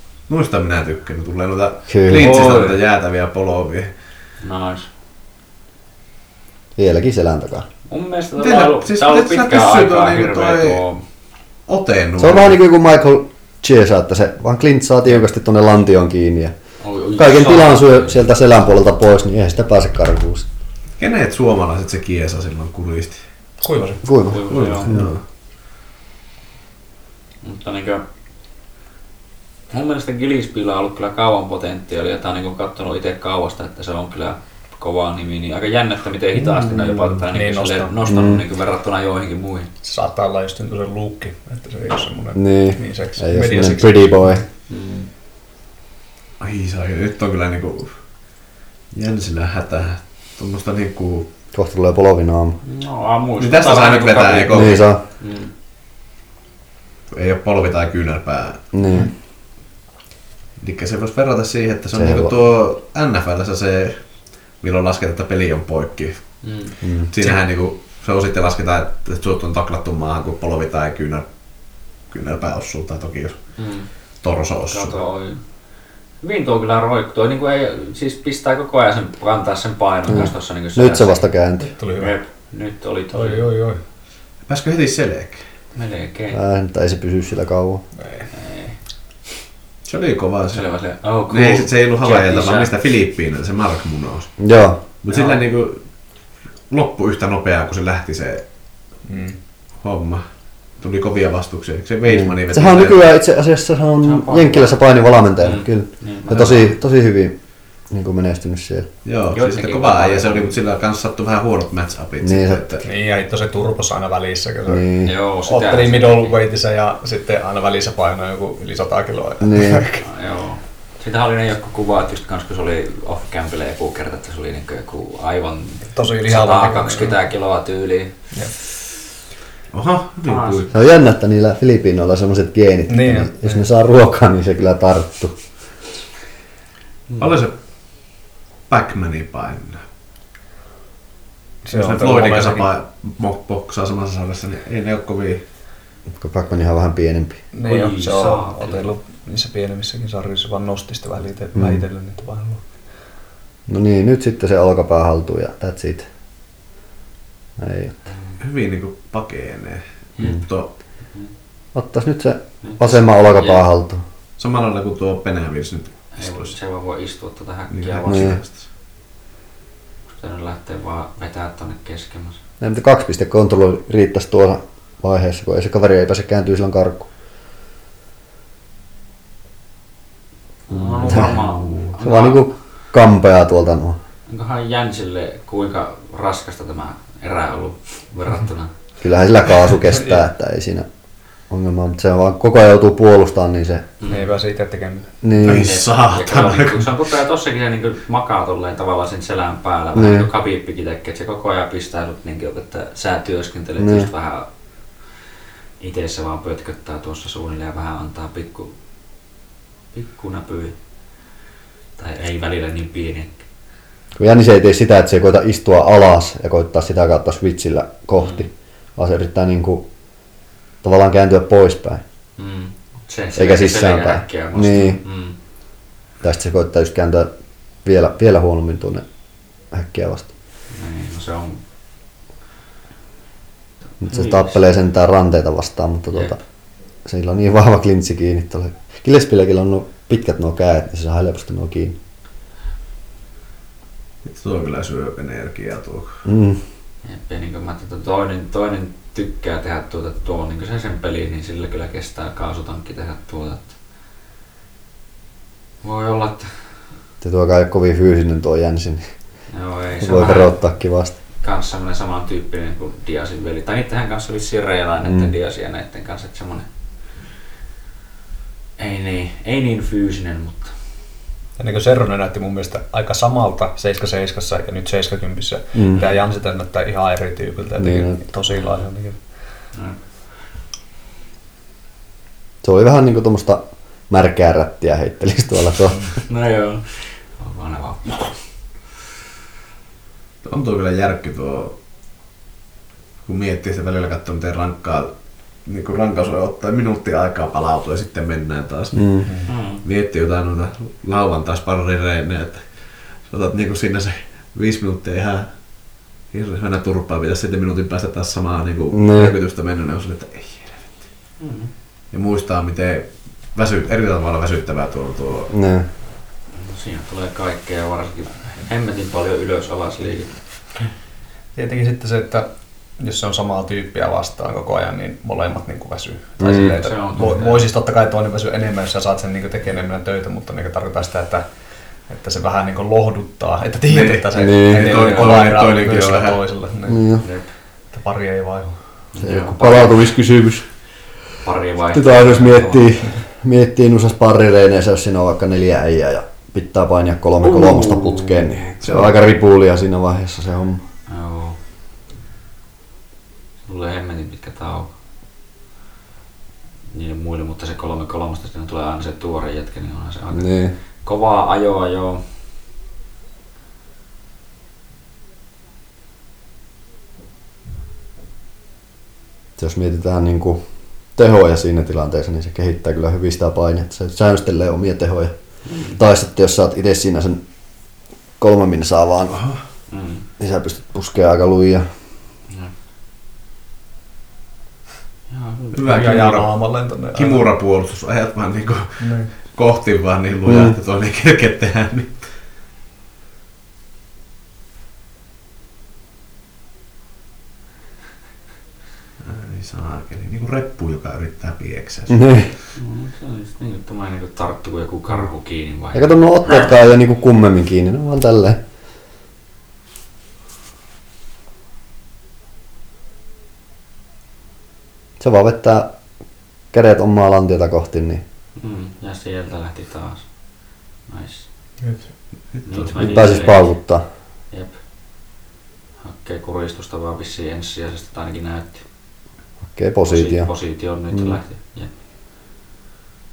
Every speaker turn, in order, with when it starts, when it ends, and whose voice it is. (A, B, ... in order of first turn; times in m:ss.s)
0:00.3-0:03.9 A
0:01.9-0:02.5 B
0:02.1-0:02.8 C
0:04.4-0:04.9 C
0:06.8-0:07.7 B
0:07.9-0:11.0 C
0:08.4-0:10.8 A
0:11.7-0:12.6 A
0:12.2-0:16.5 B
0:16.8-0:18.2 C
0:17.2-0:20.5 B
0:21.0-0:23.2 A
0:23.6-0:24.0 D
0:24.0-0:25.1 B
0:24.2-0:24.9 C
0:24.5-0:25.2 A
0:27.4-0:28.0 C
0:29.7-0:39.7 C
0:37.3-0:38.0 D
0:38.1-0:38.4 B
0:39.8-0:44.4 D
0:42.4-0:44.4 B
0:44.7-0:45.1 C
0:46.4-0:48.0 A
0:48.9-0:51.3 A
0:51.5-0:52.6 B
0:52.6-0:55.5 C
0:53.4-0:54.8 A
0:54.5-0:55.0 B
0:57.1-0:58.7 A
0:58.7-0:59.1 B
1:00.6-1:04.0 A
1:02.0-1:02.4 B
1:04.6-1:06.2 A
1:06.4-1:06.8 C
1:06.8-1:07.1 B
1:07.1-1:11.3 A
1:12.1-1:13.4 A
1:13.6-1:13.9 C
1:14.2-1:15.0 A
1:14.7-1:15.4 C
1:16.2-1:21.3 C
1:20.1-1:21.7 B
1:21.7-1:22.2 D
1:22.0-1:23.5 C
1:23.1-1:23.8 D
1:24.5-1:25.4 A
1:25.8-1:26.4 C
1:26.3-1:27.8 B
1:28.0-1:28.3 D
1:28.3-1:28.8 C
1:29.8-1:30.7 A
1:30.5-1:32.7 C
1:31.3-1:34.3 A
1:34.4-1:34.8 B
1:35.0-1:35.8 A
1:36.7-1:38.4 A
1:39.1-1:39.4 D
1:39.8-1:40.2 A
1:40.8-1:43.1 A
1:42.1-1:47.4 B
1:44.0-1:44.8 C
1:45.4-1:46.7 C
1:47.9-1:48.9 B
1:49.0-1:52.9 A
1:49.3-1:50.6 C
1:52.2-1:52.7 B
1:52.8-1:54.9 D
1:54.7-1:55.1 B
1:55.0-1:56.4 C
1:55.5-2:00.0 D
1:59.4-1:59.8 B
2:00.0-2:08.6 C
2:05.9-2:07.2 D
2:09.7-2:10.7 A
2:10.2-2:10.7 C
2:10.7-2:15.4 B
2:12.9-2:13.7 D
2:17.2-2:17.5 A
2:18.7-2:19.8 A
2:21.6-2:22.7 D
2:21.7-2:25.4 A
2:26.2-2:27.4 B
2:27.5-2:32.6 D
2:27.6-2:28.9 C
2:31.6-2:31.8 B
2:33.7-2:36.1 B
2:37.6-2:38.0 B
2:38.4-2:40.7 A
2:41.7-2:44.0 B
2:42.6-2:43.6 C
2:44.4-2:46.5 A
2:46.2-2:48.4 C
2:47.7-2:48.6 A
2:48.1-2:48.4 B
2:50.1-2:52.4 C
2:52.6-2:57.1 B
3:00.7-3:02.4 C
3:01.0-3:01.4 B
3:02.0-3:04.0 B
3:04.3-3:08.7 C
3:09.0-3:10.9 B
3:11.5-3:13.9 B
3:14.0-3:14.3 C
3:14.1-3:15.1 D
3:15.2-3:15.7 B
3:15.4-3:17.0 A
3:15.4-3:24.5 C
3:20.0-3:20.3 B
3:23.8-3:24.1 B
3:25.8-3:28.7 C
3:29.9-3:30.8 C
3:32.0-3:33.3 C
3:34.2-3:39.8 B
3:38.2-3:38.5 C
3:40.8-3:42.0 B
3:42.4-3:45.4 C
3:43.4-3:45.0 B
3:46.2-3:47.3 B
3:47.8-3:49.0 B
3:49.7-3:50.3 B
3:50.7-3:51.6 C
3:54.0-3:56.4 B
3:54.0-3:54.7 C
3:56.1-3:56.4 C
3:57.0-4:02.0 B
4:04.2-4:06.2 A
4:06.2-4:06.6 B
4:07.0-4:13.7 C
4:15.8-4:16.5 C
4:17.2-4:19.1 B
4:19.5-4:20.6 C
4:20.0-4:21.2 B
4:21.4-4:26.7 C
4:25.0-4:25.3 B
4:28.8-4:30.7 C
4:31.6-4:39.2 D
4:35.7-4:36.0 B
4:37.8-4:38.2 B
4:38.5-4:38.9 C
4:39.7-4:40.0 C
4:42.6-4:46.1 B
4:46.2-4:48.4 C
4:50.4-4:51.8 A
4:53.2-4:55.1 A
4:55.7-4:59.3 A
4:58.9-4:59.3 B
4:59.2-4:59.5 D
4:59.5-4:59.8 C
4:59.8-5:02.7 A
5:03.2-5:05.5 A
5:06.3-5:11.0 A
5:08.9-5:09.4 B
5:11.4-5:11.7 C
5:12.1-5:15.5 A
5:15.5-5:15.9 B
5:16.5-5:20.3 C
5:21.6-5:22.5 D
5:23.0-5:31.4 D
5:26.4-5:26.8 B
5:26.4-5:27.7 C
5:32.1-5:37.0 D
5:33.9-5:36.4 A
5:34.4-5:34.9 B
5:35.0-5:35.4 C
5:36.9-5:37.2 B
5:37.2-5:37.5 C
5:37.9-5:38.8 D
5:39.1-5:40.1 C
5:39.2-5:40.7 B
5:41.4-5:42.9 C
5:41.9-5:50.8 B
5:47.4-5:49.2 A
5:51.1-5:51.6 C
5:53.6-5:54.9 C
5:56.9-6:00.5 C
6:00.3-6:00.8 B
6:01.0-6:02.2 C
6:09.6-6:10.6 B
6:11.2-6:15.3 B
6:15.7-6:16.0 C
6:15.9-6:17.4 B
6:18.4-6:19.4 B
6:19.3-6:19.6 A
6:19.9-6:20.2 C
6:20.4-6:21.9 B
6:25.3-6:25.8 C
6:25.7-6:26.6 A
6:25.8-6:27.5 D
6:27.1-6:32.2 A
6:29.0-6:29.3 D
6:30.5-6:30.8 B
6:39.2-6:42.4 A
6:42.1-6:42.5 B
6:42.8-6:46.7 C
6:45.9-6:48.6 B
6:55.2-6:56.0 B
6:56.7-6:58.2 B
6:58.6-7:00.3 C
7:01.1-7:01.5 C
7:02.5-7:03.3 A
7:02.7-7:03.7 C
7:03.0-7:04.0 B
7:04.5-7:04.8 C
7:06.0-7:08.8 C
7:09.7-7:10.5 B
7:10.1-7:11.9 C
7:11.1-7:11.4 B